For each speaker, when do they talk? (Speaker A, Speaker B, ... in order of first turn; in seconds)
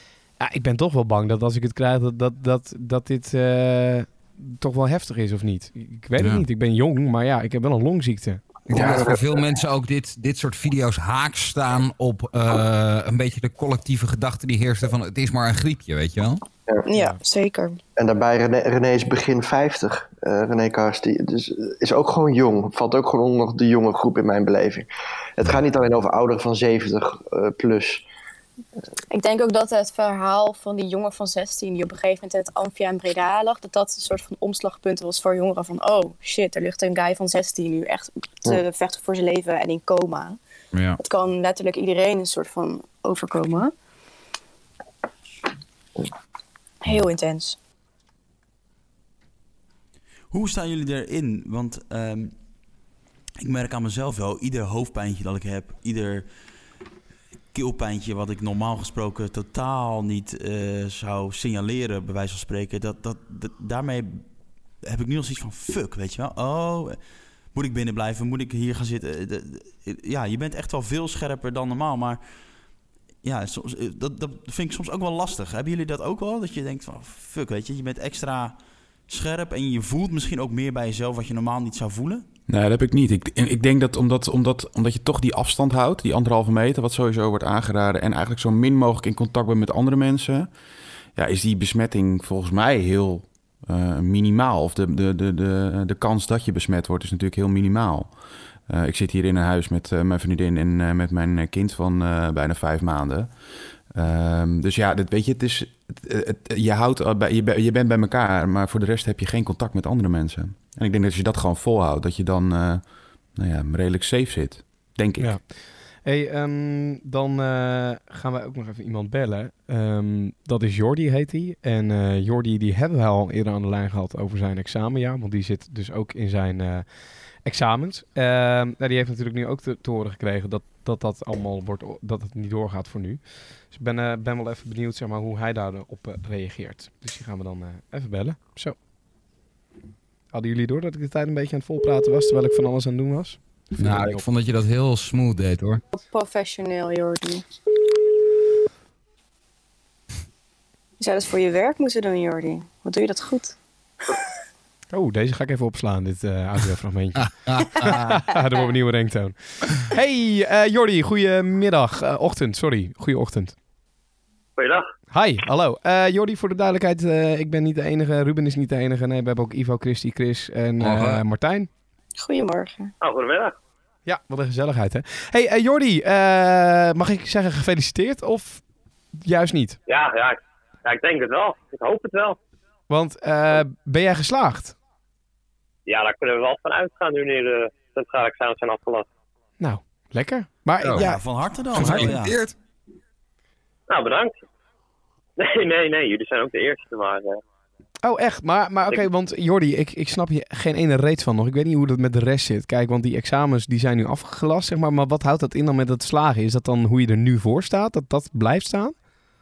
Speaker A: 0.4-8.4, 16.9-17.2, 115.2-138.8, 140.3-144.2, 154.9-163.6, 165.1-171.7, 174.1-178.6, 179.2-179.8, 182.9-184.8, 189.6-192.1, 198.0-208.9
Speaker B: 6.2-6.4, 8.7-16.4, 40.7-41.0, 143.8-145.8, 157.4-158.0, 170.8-171.2, 190.8-191.1, 191.7-192.6
Speaker C: 8.7-9.2, 18.0-28.1
Speaker D: 16.9-17.8, 29.1-40.4, 41.0-43.7, 46.8-47.6, 145.9-147.4, 151.0-153.6, 172.2-172.9
Speaker E: 50.3-52.3, 53.4-56.3, 57.5-64.3, 64.8-72.5, 73.2-82.3, 191.0-192.4
Speaker F: 82.5-90.5, 91.2-98.2, 98.7-103.4, 103.9-115.4
Speaker G: 164.6-164.9, 173.0-173.5, 179.9-182.4, 185.9-189.1, 193.9-194.4, 195.4-197.4